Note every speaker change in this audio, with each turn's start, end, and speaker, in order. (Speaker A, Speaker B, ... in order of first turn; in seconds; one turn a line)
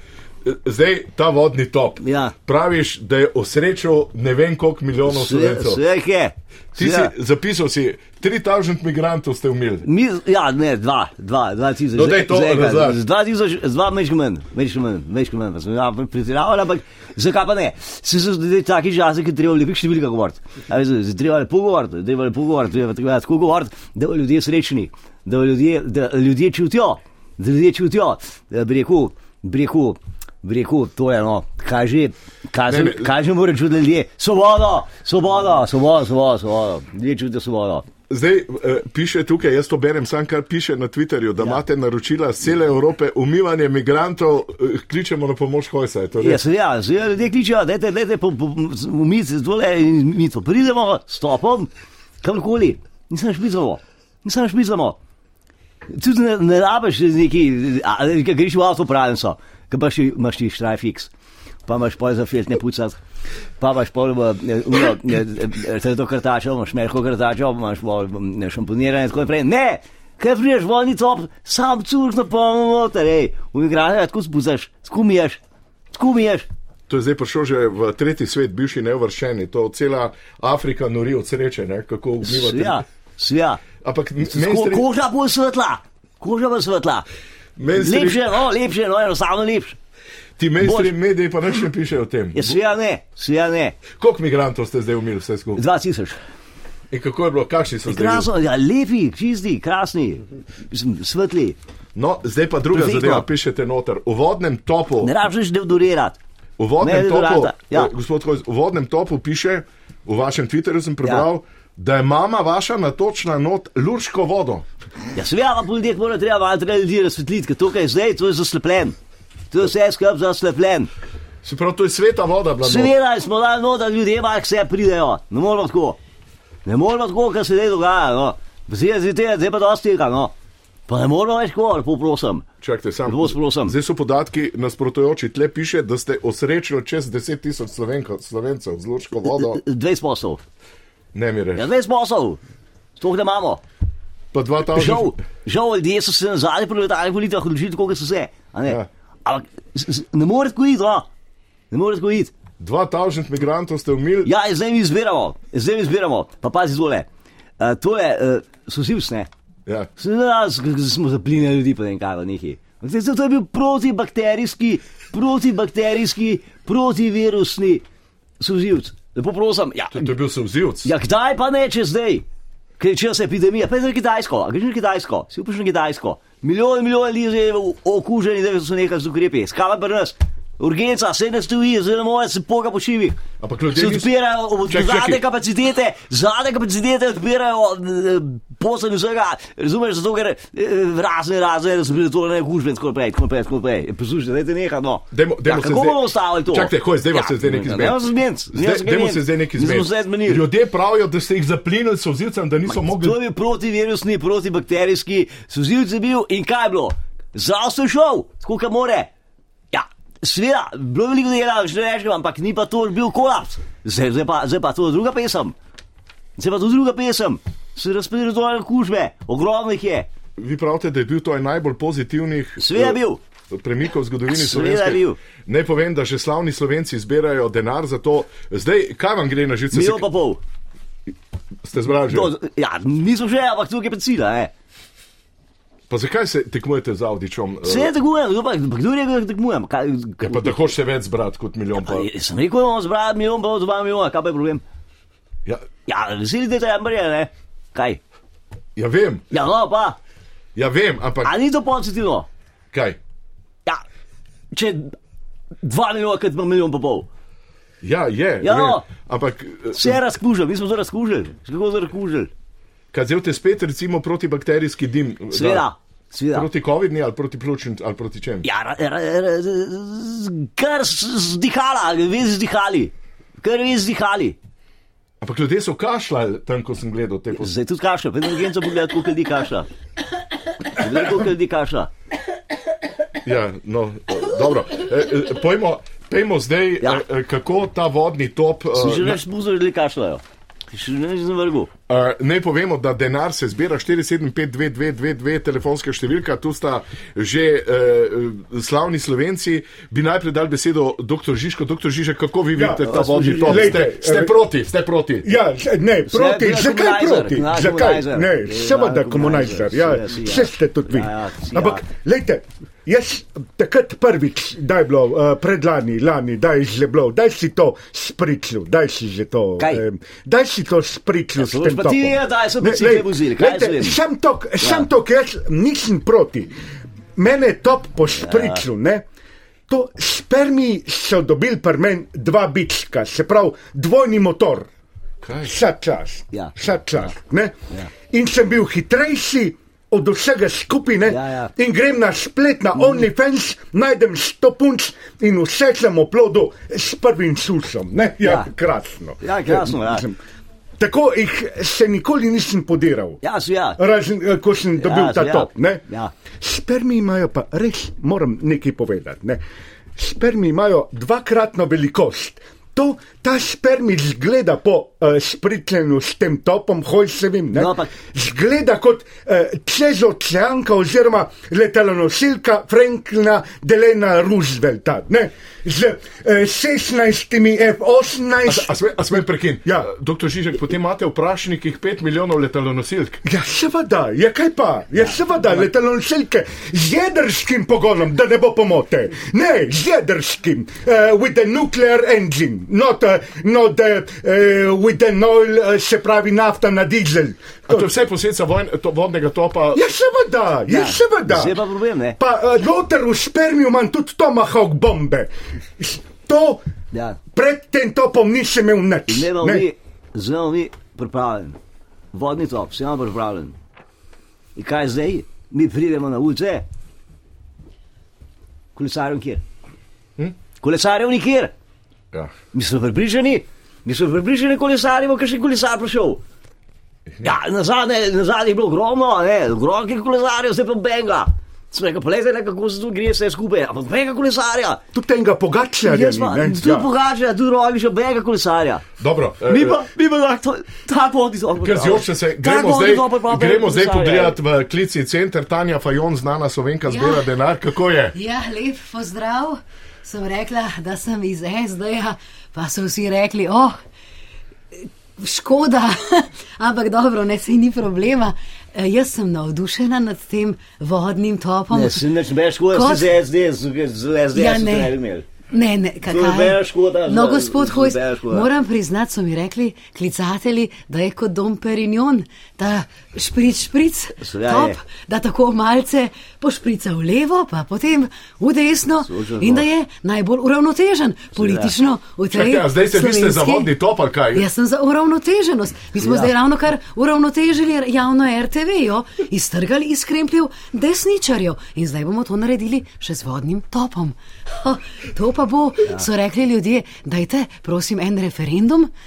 Speaker A: 0.4-5.8
Speaker B: 2.0-2.3
Speaker B: 5.1-7.1
Speaker A: 6.8-9.9
Speaker B: 9.8-37.9
Speaker A: 11.9-13.0
Speaker A: 32.7-33.1
Speaker A: 38.1-46.4
Speaker B: 46.2-51.7
Speaker B: 52.2-55.0
Speaker B: 55.9-61.1
Speaker B: 61.7-63.0
Speaker B: 63.6-75.4
Speaker B: 76.0-76.5
Speaker A: 76.9-82.8
Speaker B: 82.2-83.6
Speaker A: 83.8-84.8
Speaker B: 84.3-87.1
Speaker A: 87.6-88.3
Speaker B: 87.8-89.8
Speaker A: 90.4-92.6
Speaker B: 90.6-90.9
Speaker B: 92.4-93.8
Speaker A: 93.9-95.6
Speaker B: 95.6-96.2
Speaker A: 96.9-98.3
Speaker B: 97.9-101.6
Speaker A: 102.0-105.1
Speaker B: 102.7-103.3
Speaker B: 105.0-106.2
Speaker A: 106.6-114.7
Speaker B: 106.8-107.9
Speaker B: 115.2-119.0
Speaker B: 119.5-120.9
Speaker A: 121.4-122.9
Speaker B: 122.6-126.0
Speaker B: 126.7-130.3
Speaker B: 130.9-132.5
Speaker A: 132.6-139.6
Speaker B: 133.1-133.8
Speaker B: 139.5-140.4
Speaker A: 141.1-141.7
Speaker B: 141.6-142.4
Speaker B: 143.0-143.6
Speaker A: 144.3-145.2
Speaker B: 144.7-151.1
Speaker B: 151.7-152.3
Speaker A: 152.6-154.3
Speaker B: 154.2-157.1
Speaker B: 157.6-159.3
Speaker B: 160.0-167.8
Speaker B: 168.4-170.1
Speaker A: 169.9-170.9
Speaker B: 170.8-172.2
Speaker B: 172.8-183.2
Speaker A: 183.4-184.1
Speaker B: 183.7-200.5
Speaker A: 184.7-185.2
Speaker A: 195.1-203.2
Speaker B: 202.7-209.1
Speaker B: 209.7-215.6
Speaker B: 216.4-220.1
Speaker A: 220.4-223.0
Speaker B: 222.6-223.2
Speaker A: 223.5-230.1
Speaker B: 224.3-225.2
Speaker B: 229.7-230.4
Speaker A: 231.6-232.3
Speaker B: 232.1-234.5
Speaker A: 235.9-237.9
Speaker B: 237.6-240.6
Speaker A: 240.2-242.1
Speaker B: 241.8-244.6
Speaker B: 245.9-248.0
Speaker A: 248.8-249.2
Speaker B: 249.3-250.0
Speaker A: 250.6-251.3
Speaker B: 251.2-252.3
Speaker A: 252.7-253.0
Speaker B: 254.5-254.9
Speaker B: 255.6-257.1
Speaker A: 257.8-260.0
Speaker B: 258.4-258.9
Speaker B: 259.7-262.3
Speaker A: 262.9-265.7
Speaker B: 265.3-266.5
Speaker A: 266.3-268.5
Speaker B: 268.4-274.4
Speaker A: 275.2-277.5
Speaker B: 277.4-279.7
Speaker B: 280.8-281.9
Speaker A: 283.2-289.2
Speaker B: 288.8-291.7
Speaker A: 291.9-305.4
Speaker C: 302.6-304.3
Speaker B: 302.8-303.9
Speaker C: 305.2-326.5
Speaker B: 306.1-311.8
Speaker B: 321.4-324.0
Speaker B: 324.6-324.9
Speaker C: 327.2-329.1
Speaker B: 328.2-328.6
Speaker C: 329.7-334.7
Speaker A: 335.2-335.6
Speaker C: 335.4-337.6
Speaker B: 336.3-337.1
Speaker C: 338.1-350.2
Speaker B: 341.1-341.5
Speaker B: 348.2-348.5
Speaker B: 349.2-350.1
Speaker C: 350.8-353.2
Speaker B: 353.2-353.8
Speaker C: 353.8-355.8
Speaker B: 354.8-356.1
Speaker C: 356.4-359.4
Speaker C: 360.0-378.8
Speaker B: 367.5-367.9
Speaker A: 378.5-383.2
Speaker C: 383.3-397.9
Speaker A: 397.7-399.8
Speaker C: 399.7-401.6
Speaker B: 400.7-402.2
Speaker C: 402.2-406.6
Speaker B: 406.9-407.2
Speaker C: 407.3-409.7
Speaker B: 409.1-411.6
Speaker B: 412.1-413.6
Speaker B: 414.6-416.6
Speaker B: 418.8-419.4
Speaker B: 420.6-421.5
Speaker B: 422.5-426.2
Speaker B: 427.2-434.8
Speaker C: 434.9-436.9
Speaker B: 435.9-438.9
Speaker A: 439.0-439.8
Speaker B: 439.5-444.4
Speaker A: 441.6-448.1
Speaker D: 446.9-447.2
Speaker D: 448.1-453.8
Speaker D: 455.2-462.1
Speaker B: 461.7-465.3
Speaker D: 462.7-463.1
Speaker D: 464.3-464.9
Speaker D: 465.5-483.7
Speaker B: 466.1-468.5
Speaker B: 474.2-474.8
Speaker B: 479.0-479.7
Speaker B: 481.4-481.7
Speaker A: 482.3-484.5
Speaker D: 484.3-498.9
Speaker B: 486.0-486.3